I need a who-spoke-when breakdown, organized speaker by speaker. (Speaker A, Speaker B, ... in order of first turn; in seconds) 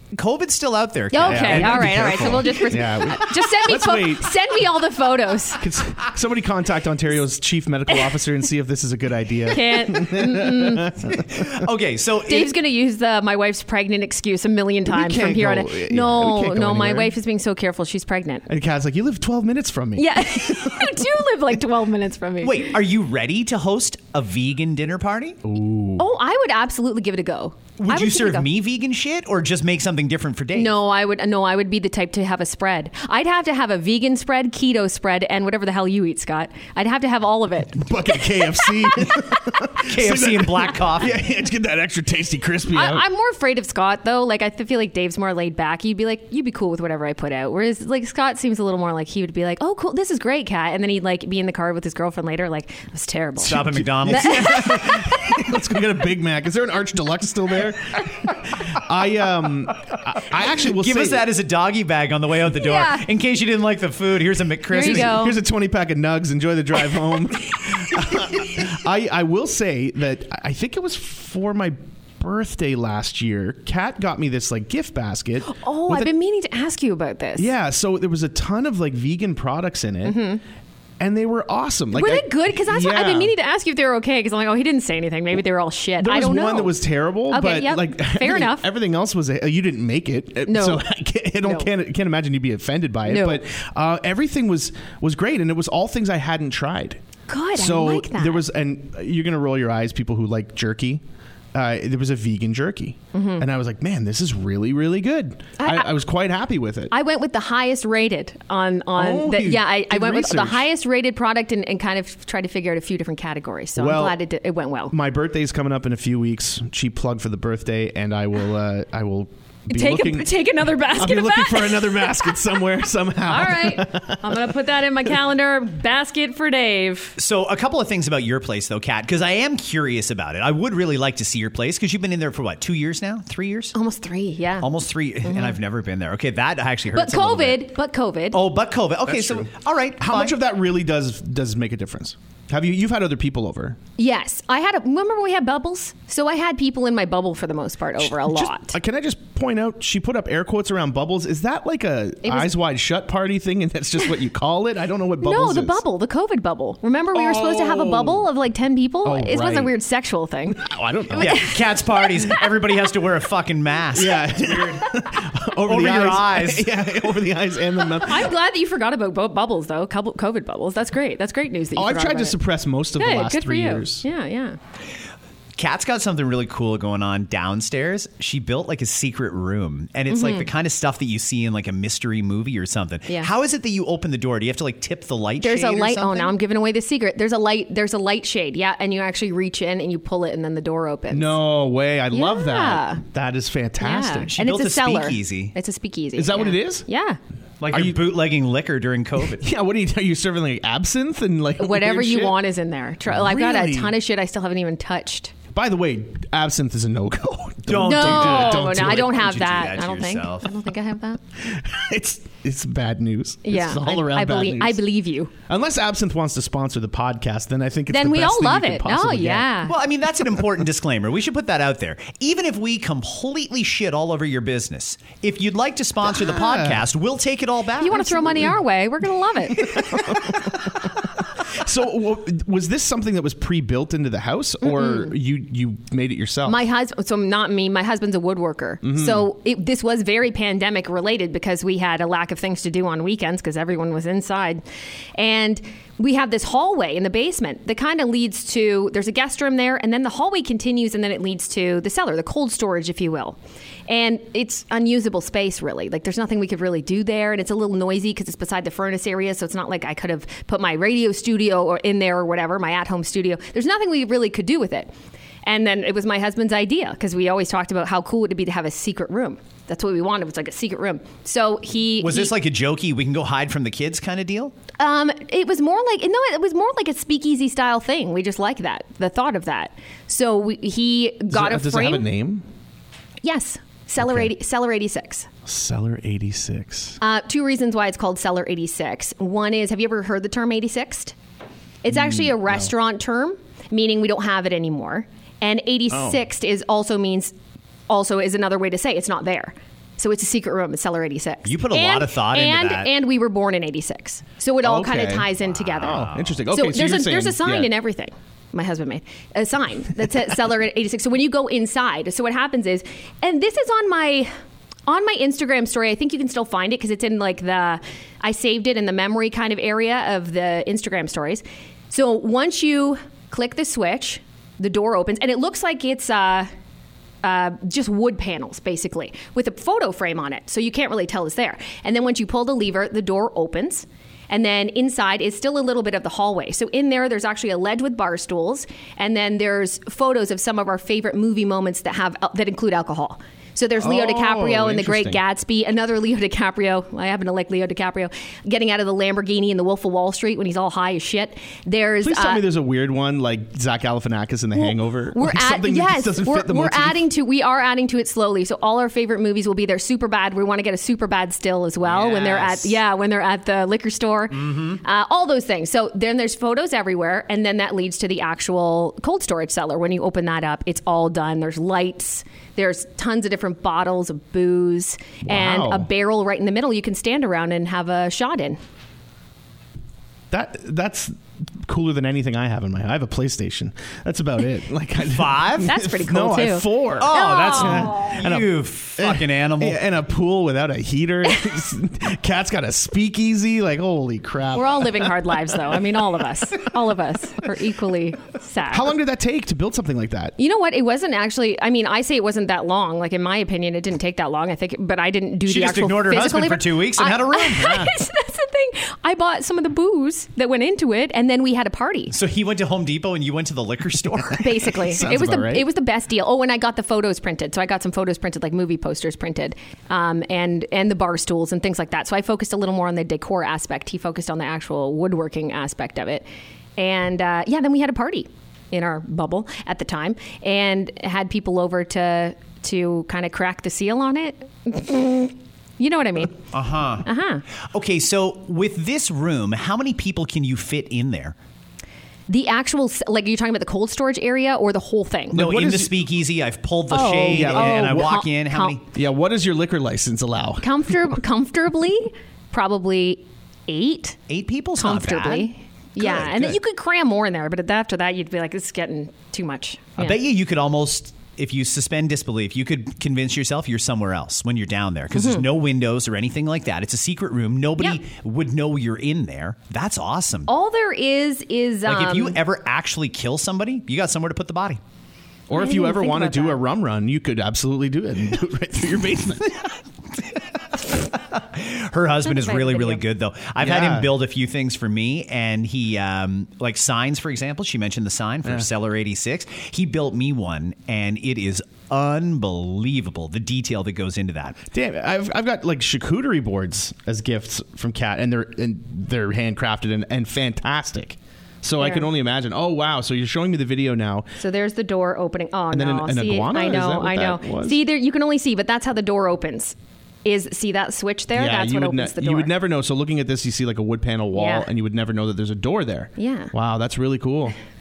Speaker A: 0.1-2.5, 11.3-12.5, 22.4-25.4, 27.8-30.8, 39.8-41.1, 53.4-54.6, 60.6-65.2, 127.2-133.8, 134.6-137.7, 138.3-140.3, 161.2-164.7, 165.6-166.7, 175.6-186.3, 194.3-195.6, 197.6-199.4, 207.7-210.5, 219.7-228.2, 272.0-274.5, 301.4-302.9, 305.7-306.4, 361.8-362.6, 364.4-364.8, 385.1-385.7, 387.0-389.8, 405.5-407.8, 412.1-414.5, 436.5-437.1, 437.7-441.4, 445.3-448.8, 454.3-455.5, 456.0-456.6, 460.0-470.5, 471.9-474.8, 480.9-494.6
Speaker B: 1.1-5.6, 9.5-10.9, 12.3-18.5, 20.0-22.7, 26.0-28.5, 30.5-39.1, 42.7-55.3, 62.5-63.0, 64.7-65.4, 75.5-77.5, 80.0-80.4, 81.9-86.8, 87.3-88.7, 90.5-90.8, 91.4-91.7, 93.1-93.4, 97.3-98.5, 103.1-103.5, 105.6-106.0, 106.9-114.9, 119.7-122.6, 123.2-127.1, 133.8-134.7, 135.2-135.6, 136.9-138.4, 144.0-148.7, 152.2-152.5, 155.2-162.4, 168.0-172.4, 173.0-174.6, 180.1-180.5, 185.4-191.4, 192.1-193.0, 193.8-197.2, 201.6-205.3, 207.8-211.2, 213.4-215.3, 217.9-219.7, 227.8-229.6, 234.6-235.1, 236.4-244.6, 245.2-264.9, 265.5-272.3, 274.8-282.1, 283.2-285.3, 287.0-291.1, 291.8-297.3, 297.9-314.3, 314.9-326.5, 327.2-352.4, 354.6-378.6, 385.6-388.2, 394.6-398.9, 400.4-412.1, 414.4-426.3, 426.8-436.3, 437.1-437.4, 442.3-445.4, 446.9-448.8, 450.6-454.2, 454.8-460.2, 465.1-465.4, 470.5-472.4, 475.6-476.6, 482.3-483.0, 501.8-502.1, 504.4-512.5, 514.3-514.7, 516.2-516.5
Speaker C: 1.2-4.4, 5.6-11.2, 14.8-17.2, 18.5-21.1, 25.4-26.1, 37.7-43.0, 53.4-61.3, 64.7-76.1, 77.4-80.2, 81.0-83.3, 86.0-97.0, 97.5-101.0, 101.5-106.9, 109.0-110.7, 113.8-114.2, 114.9-124.5, 139.1-143.8, 148.0-155.8, 157.1-158.3, 159.0-159.8, 160.5-161.4, 163.9-168.3, 171.8-174.1, 191.1-194.3, 196.2-196.9, 197.7-198.1, 199.4-202.4, 203.1-203.9, 205.5-209.2, 211.4-214.8, 215.5-219.5, 226.1-226.8, 227.9-228.6, 229.6-230.9, 231.5-236.7, 238.8-239.3, 281.3-282.5, 284.0-284.3, 285.5-287.0, 291.9-292.7, 295.9-296.2, 304.6-307.7, 343.8-345.2, 352.0-357.1, 375.2-375.9, 380.3-395.8, 398.7-400.4, 407.6-407.9, 414.7-415.7, 445.3-445.9, 447.3-448.1, 448.9-450.8, 475.5-479.7, 483.6-484.1, 494.7-504.3, 505.7-507.8, 511.3-517.5